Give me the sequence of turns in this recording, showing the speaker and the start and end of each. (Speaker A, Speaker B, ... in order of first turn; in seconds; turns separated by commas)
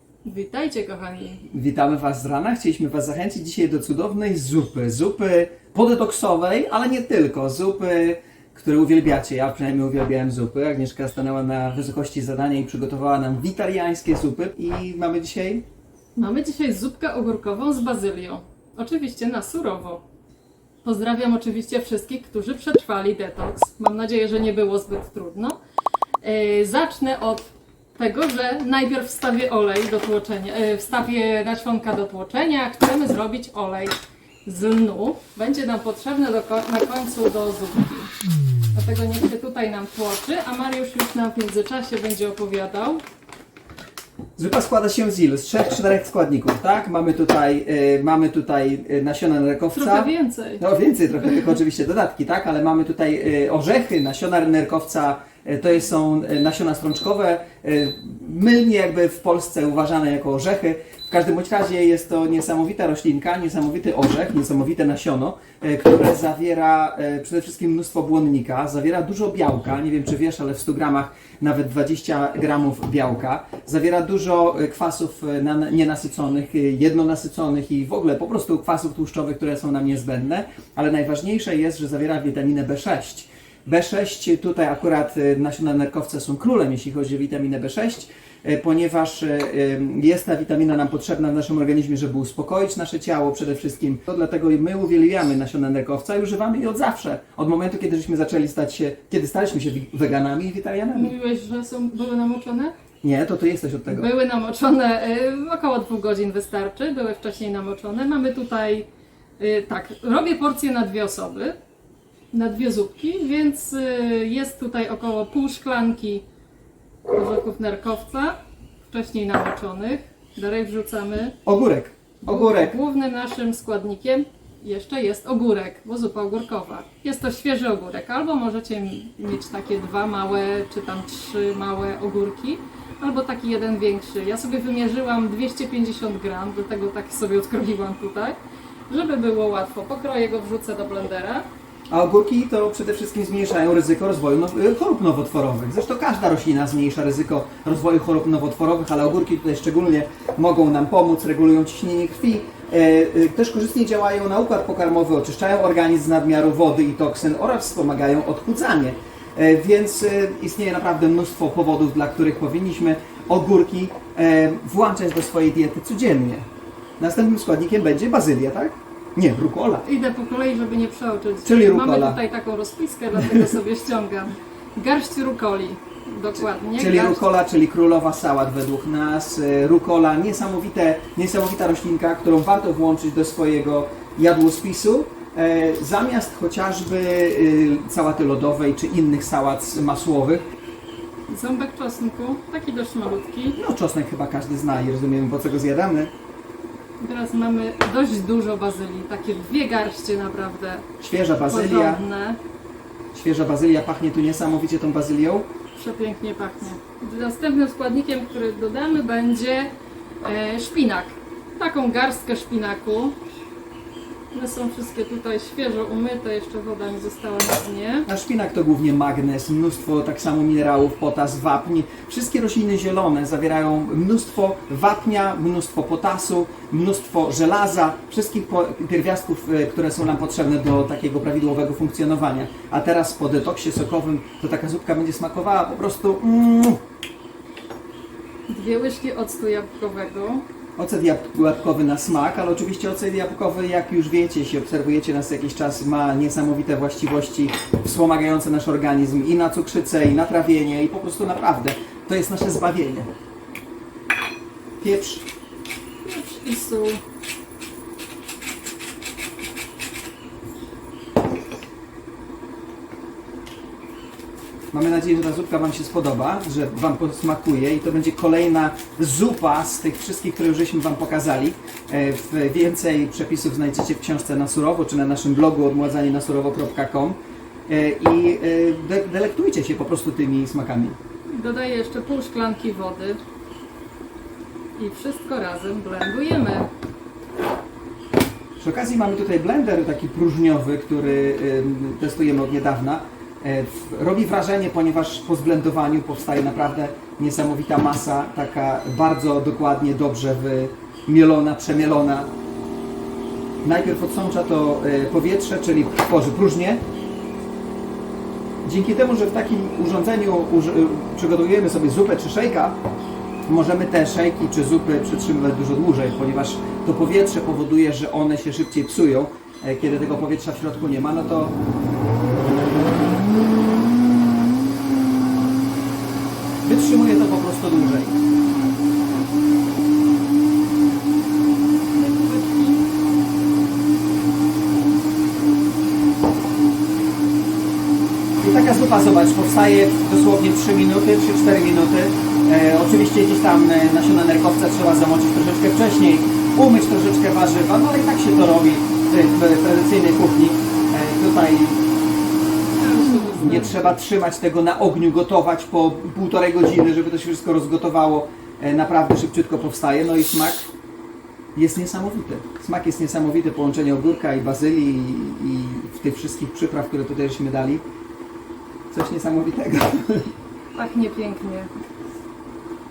Speaker A: 0.2-1.4, Speaker B: 1.5-15.7, Speaker A: 16.2-20.0, Speaker A: 20.8-25.6, Speaker A: 26.2-34.0, Speaker A: 34.5-38.1, Speaker A: 38.7-43.0, Speaker B: 44.4-101.1, Speaker A: 49.8-50.6, Speaker A: 100.9-102.7, Speaker B: 103.0-104.1, Speaker A: 103.9-108.9, Speaker A: 109.4-111.6, Speaker A: 112.3-116.2, Speaker A: 117.1-118.4, Speaker A: 118.9-121.4, Speaker B: 121.5-122.8, Speaker A: 122.2-138.4, Speaker A: 138.9-141.4, Speaker B: 141.9-166.4, Speaker B: 167.0-169.9, Speaker A: 169.8-177.3, Speaker B: 171.4-172.2, Speaker B: 176.8-190.4, Speaker A: 191.3-193.6, Speaker B: 193.6-196.1, Speaker A: 197.0-200.9, Speaker B: 201.0-202.0, Speaker A: 201.5-202.4, Speaker B: 203.1-205.5, Speaker A: 205.7-213.2, Speaker A: 214.3-218.1, Speaker B: 218.1-236.8, Speaker A: 238.5-240.5, Speaker B: 240.8-253.1, Speaker B: 254.8-255.2, Speaker A: 256.0-257.0, Speaker B: 264.7-281.0, Speaker A: 281.3-283.2, Speaker A: 284.8-286.7, Speaker B: 288.6-302.3, Speaker B: 303.6-306.8, Speaker B: 308.6-312.8, Speaker B: 313.5-321.6, Speaker B: 326.7-328.2, Speaker A: 331.9-332.8, Speaker B: 338.4-351.8, Speaker A: 352.8-353.8, Speaker B: 353.4-360.7, Speaker B: 361.6-367.8, Speaker B: 368.9-370.3, Speaker A: 370.7-371.7